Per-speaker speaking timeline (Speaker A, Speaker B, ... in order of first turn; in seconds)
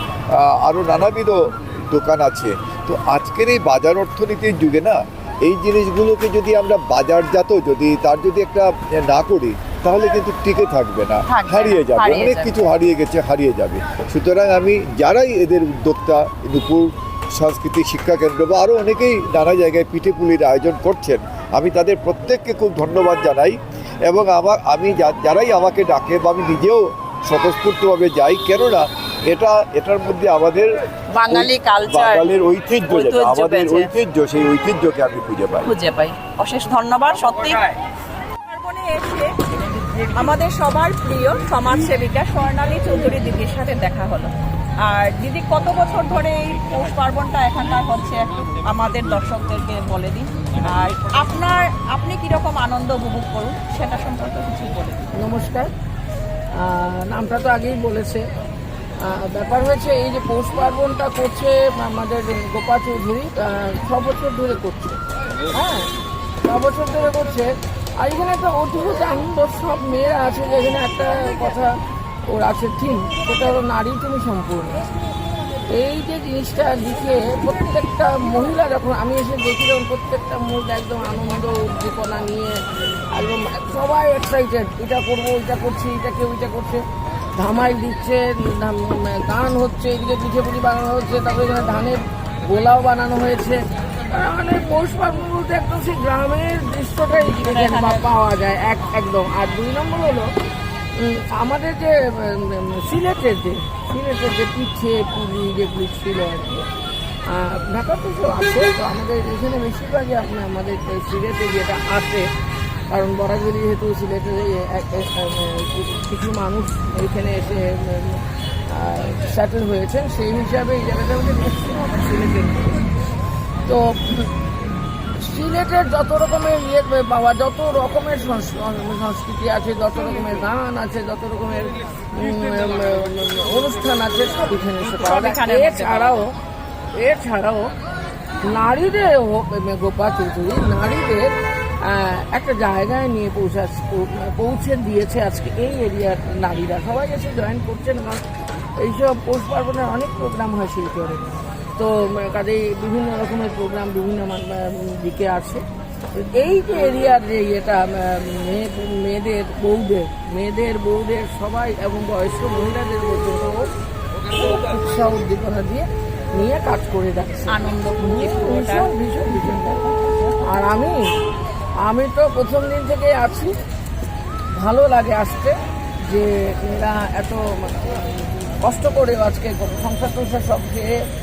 Speaker A: 0.3-30.7, 31.3-35.7
Speaker B: 11.3-12.5, 31.1-32.2, 32.9-33.9, 35.6-37.6, 38.5-39.3, 40.1-44.3, 44.8-55.1, 134.8-136.2, 167.5-168.9
Speaker C: 55.2-55.7, 56.6-58.2, 59.0-65.0, 65.5-65.9, 66.5-71.7, 72.3-74.8, 75.7-82.5, 83.1-86.8, 87.4-93.6, 94.1-100.3, 101.0-106.6, 107.3-112.2, 112.9-122.8, 123.7-124.3, 125.2-136.3, 136.9-137.7, 138.4-141.3, 141.8-148.2, 148.8-155.6, 156.2-163.6, 164.4-169.8, 170.4-171.0, 171.8-173.5, 174.6-175.5, 176.1-178.0, 178.6-180.9